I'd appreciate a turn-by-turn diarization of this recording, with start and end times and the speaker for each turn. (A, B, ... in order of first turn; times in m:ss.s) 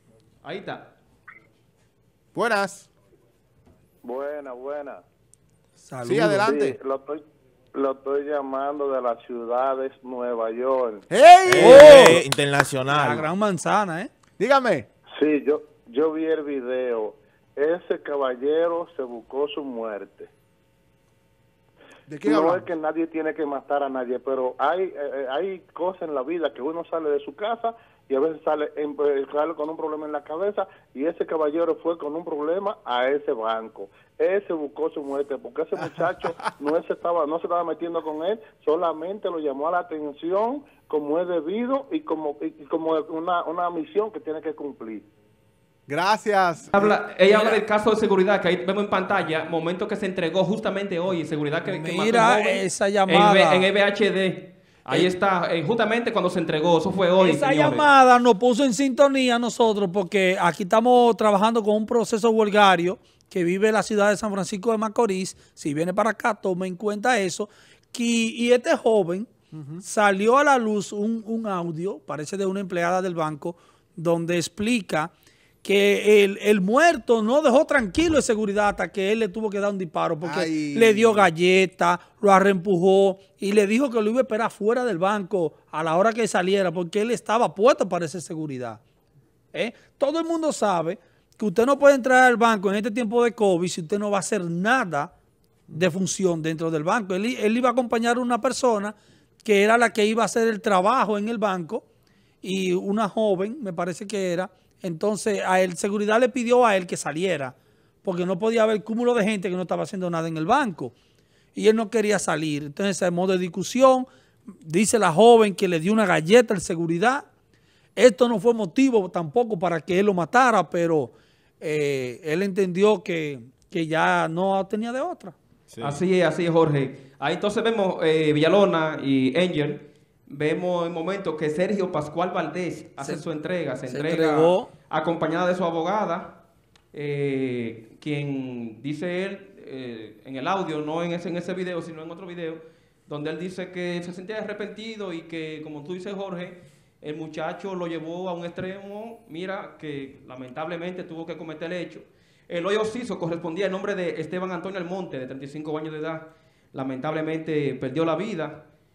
0:00.4-0:00.8 A
0:02.3-0:02.9 B
0:04.0-0:05.0 C
0:05.8-0:06.5 D
0:06.0-0:06.8 B
0:06.4-0:07.2 C
0:07.7-0:11.0 C
0:11.1-0:12.2 B
0:11.5-0:13.3 E
0:11.6-0:12.2 D
0:12.8-0:14.1 D
0:14.4-0:14.9 B
0:15.1-0:20.3 C
0:22.1-0:22.7 B
0:22.2-0:45.1 C
0:45.9-0:46.9 B
0:46.7-0:57.9 A
0:51.7-0:53.7 D
0:57.2-1:09.3 D
1:09.5-1:09.8 B
1:09.8-1:15.1 D
1:15.6-1:28.8 D
1:20.2-1:21.3 B
1:29.5-1:35.1 D
1:35.7-1:41.8 D
1:42.4-1:50.9 D
1:51.6-1:54.1 D
1:54.6-1:57.2 D
1:58.0-2:05.4 D
2:05.7-2:06.0 E
2:05.8-2:16.3 A
2:13.9-2:14.7 D
2:16.9-2:38.6 A